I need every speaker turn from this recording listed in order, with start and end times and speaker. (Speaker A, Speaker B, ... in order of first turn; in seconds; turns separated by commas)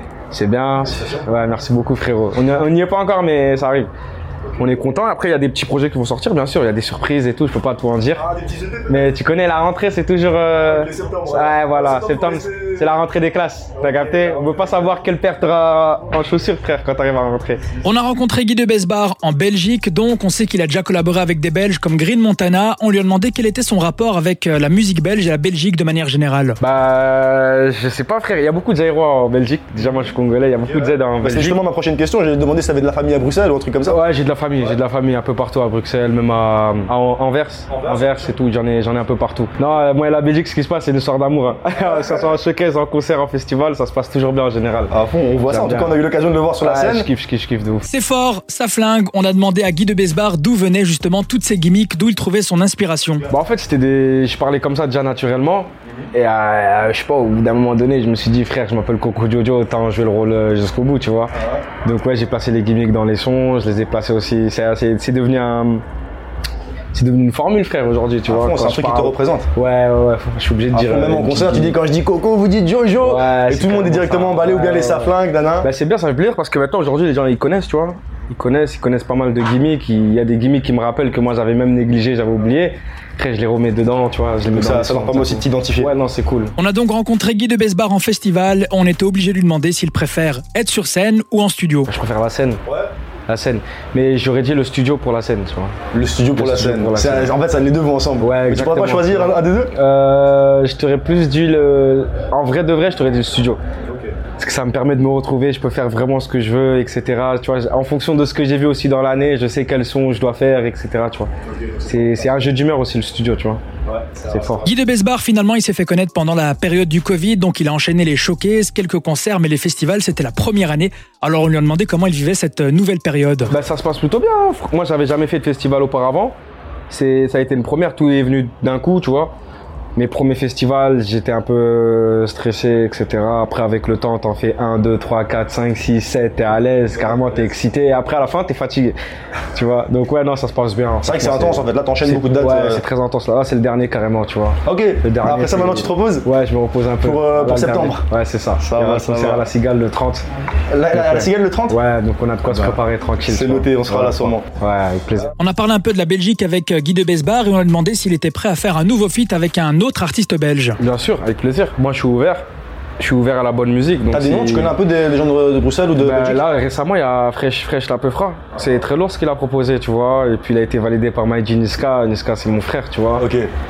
Speaker A: 0.3-3.9, Speaker A: 4.6-8.2, Speaker B: 8.2-9.1, Speaker A: 8.9-17.6, Speaker B: 10.6-12.9, Speaker B: 13.8-15.0, Speaker C: 17.8-26.6, Speaker A: 26.6-31.6, Speaker B: 31.2-34.0, Speaker A: 33.9-44.9, Speaker B: 37.7-38.3, Speaker B: 41.9-42.3, Speaker B: 44.9-47.1, Speaker A: 45.5-46.0, Speaker A: 46.6-47.9, Speaker C: 47.9-53.3, Speaker A: 53.3-65.8, Speaker A: 66.9-71.8, Speaker B: 68.3-69.5, Speaker B: 70.7-75.7, Speaker A: 73.0-86.5, Speaker B: 84.5-85.9, Speaker C: 86.6-91.9, Speaker A: 91.9-92.6, Speaker A: 93.3-95.8, Speaker B: 95.9-99.7, Speaker A: 96.3-97.3, Speaker A: 98.2-103.6, Speaker B: 103.9-104.1, Speaker A: 104.4-111.3, Speaker A: 111.8-113.6, Speaker B: 113.9-114.6, Speaker A: 114.3-114.7, Speaker C: 114.6-123.5, Speaker A: 123.5-126.4, Speaker A: 126.9-129.4, Speaker A: 130.0-139.0, Speaker A: 139.5-150.3, Speaker B: 141.0-142.8, Speaker B: 144.7-146.3, Speaker B: 147.0-148.1, Speaker B: 148.6-149.4, Speaker B: 150.7-151.8, Speaker A: 150.9-155.3, Speaker B: 152.5-154.5, Speaker C: 155.4-160.8, Speaker A: 160.8-162.4, Speaker A: 163.0-164.8, Speaker B: 164.1-166.4, Speaker A: 166.0-173.3, Speaker B: 173.2-173.5